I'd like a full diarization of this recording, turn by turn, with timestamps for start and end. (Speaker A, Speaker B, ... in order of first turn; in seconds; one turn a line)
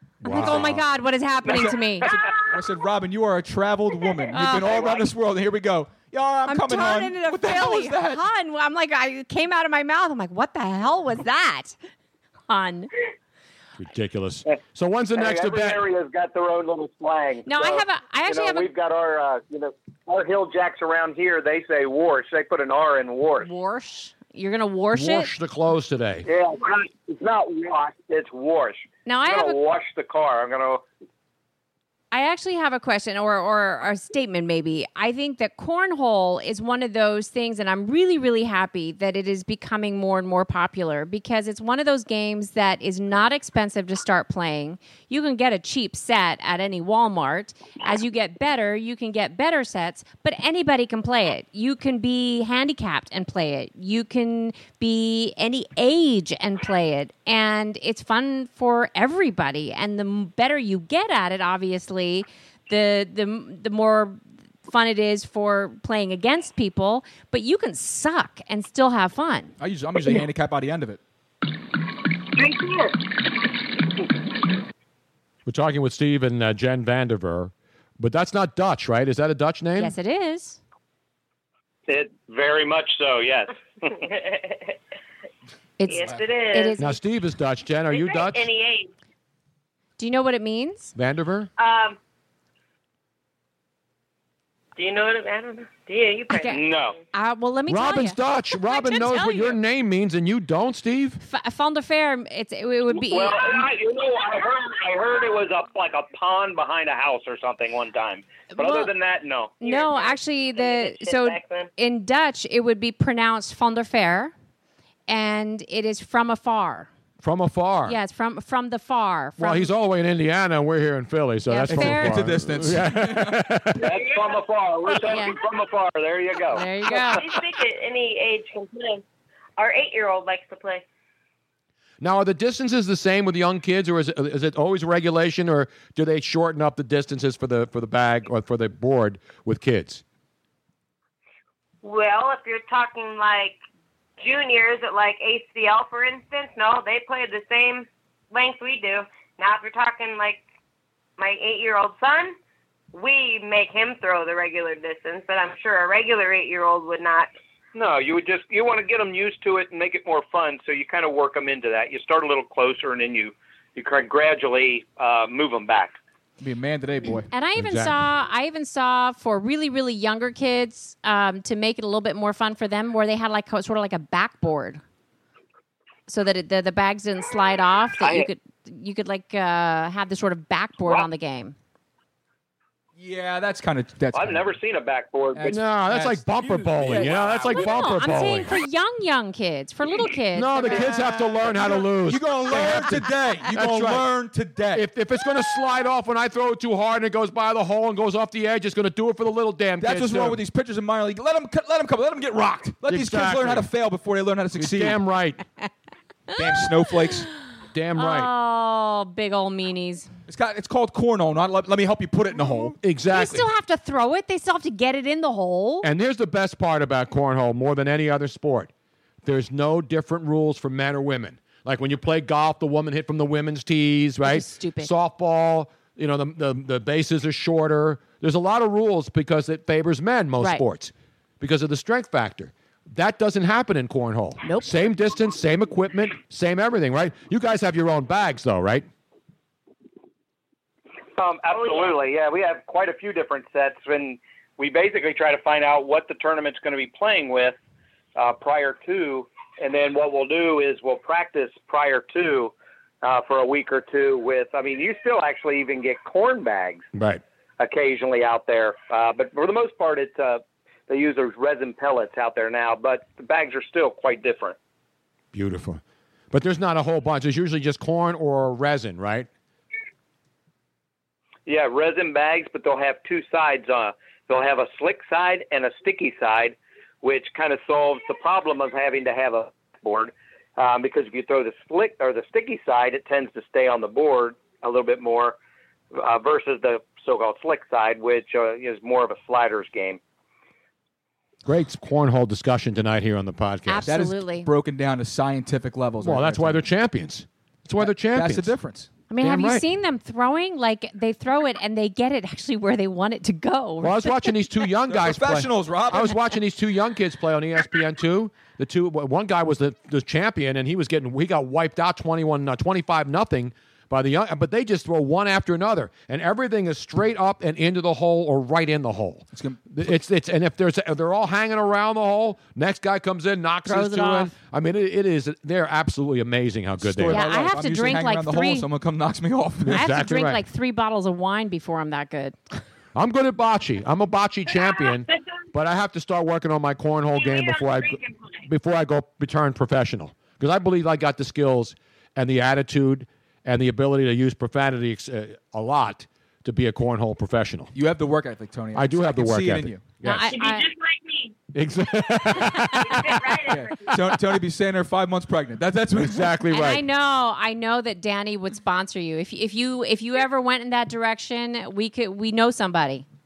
Speaker A: 0.2-0.8
Speaker B: 0.2-0.8
Speaker C: 0.2-2.1
Speaker D: 1.4-2.1
Speaker B: 1.5-8.3
Speaker C: 4.3-5.0
Speaker D: 4.7-5.0
Speaker C: 6.5-11.8
Speaker C: 12.5-12.9
Speaker A: 13.8-15.9
Speaker D: 15.1-23.5
Speaker C: 17.4-18.7
Speaker C: 23.4-25.3
Speaker A: 24.9-26.3
Speaker D: 26.2-30.8
Speaker C: 29.1-29.6
Speaker C: 32.1-69.5
Speaker B: 69.6-71.0
Speaker E: 72.4-72.9
Speaker A: 75.5-79.9
Speaker C: 79.8-80.6
Speaker D: 81.9-84.0
Speaker E: 84.0-84.7
Speaker C: 85.8-87.0
Speaker E: 85.9-86.8
Speaker A: 86.8-88.5
Speaker E: 87.9-88.9
Speaker C: 90.0-90.9
Speaker A: 90.9-91.5
Speaker E: 91.6-92.0
Speaker E: 94.8-96.5
Speaker C: 96.3-99.6
Speaker D: 96.5-97.0
Speaker A: 97.7-101.2
Speaker C: 101.2-103.7
Speaker D: 102.9-109.5
Speaker C: 108.5-108.9
Speaker C: 109.6-114.3
Speaker E: 109.6-111.7
Speaker C: 115.1-116.9
Speaker A: 117.2-118.0
Speaker C: 117.8-119.7
Speaker A: 119.4-123.9
Speaker C: 121.5-122.2
Speaker B: 121.7-123.5
Speaker D: 123.8-127.2
Speaker C: 125.1-125.4
Speaker C: 126.5-127.2
Speaker E: 127.0-129.0
Speaker E: 129.6-130.8
Speaker A: 132.0-140.0
Speaker E: 141.8-143.6
Speaker E: 144.2-150.4
Speaker E: 151.2-152.3
Speaker E: 152.9-157.3
Speaker D: 157.7-166.0
Speaker B: 166.4-167.3
Speaker C: 167.3-174.8
Speaker A: 167.6-168.0
Speaker C: 176.1-181.5
Speaker D: 178.0-178.3
Speaker B: 182.9-184.5
Speaker D: 184.1-185.6
Speaker B: 185.3-187.8
Speaker A: 185.4-188.6
Speaker C: 187.5-190.9
Speaker A: 190.3-194.1
Speaker B: 190.8-194.9
Speaker A: 194.7-200.4
Speaker B: 199.8-205.0
Speaker A: 202.8-203.7
Speaker A: 204.5-205.4
Speaker B: 206.4-207.3
Speaker A: 207.7-208.3
Speaker C: 207.9-210.1
Speaker B: 210.3-212.8
Speaker A: 212.4-213.5
Speaker C: 213.1-215.9
Speaker A: 215.8-218.7
Speaker A: 219.2-238.9
Speaker C: 224.2-224.9
Speaker C: 230.4-230.6
Speaker C: 234.4-234.8
Speaker D: 241.2-247.6
Speaker E: 241.5-241.9
Speaker D: 248.1-256.8
Speaker A: 256.9-257.2
Speaker D: 257.6-264.6
Speaker A: 265.3-269.3
Speaker D: 271.4-285.4
Speaker D: 285.9-290.0
Speaker A: 291.4-293.9
Speaker C: 293.7-294.5
Speaker B: 293.9-296.6
Speaker A: 296.0-298.5
Speaker B: 297.8-298.9
Speaker C: 299.1-304.3
Speaker A: 299.2-299.6
Speaker A: 303.8-327.2
Speaker B: 304.9-306.2
Speaker B: 319.3-319.6
Speaker C: 323.6-324.3
Speaker B: 326.8-329.8
Speaker C: 327.1-328.7
Speaker A: 329.6-330.4
Speaker C: 329.7-332.6
Speaker A: 332.9-347.7
Speaker E: 337.1-338.3
Speaker B: 347.7-350.0
Speaker A: 348.7-350.3
Speaker C: 350.0-350.7
Speaker E: 350.3-351.3
Speaker A: 351.5-353.3
Speaker C: 352.7-353.1
Speaker E: 352.8-353.8
Speaker B: 353.5-356.5
Speaker A: 355.9-356.9
Speaker C: 356.5-363.0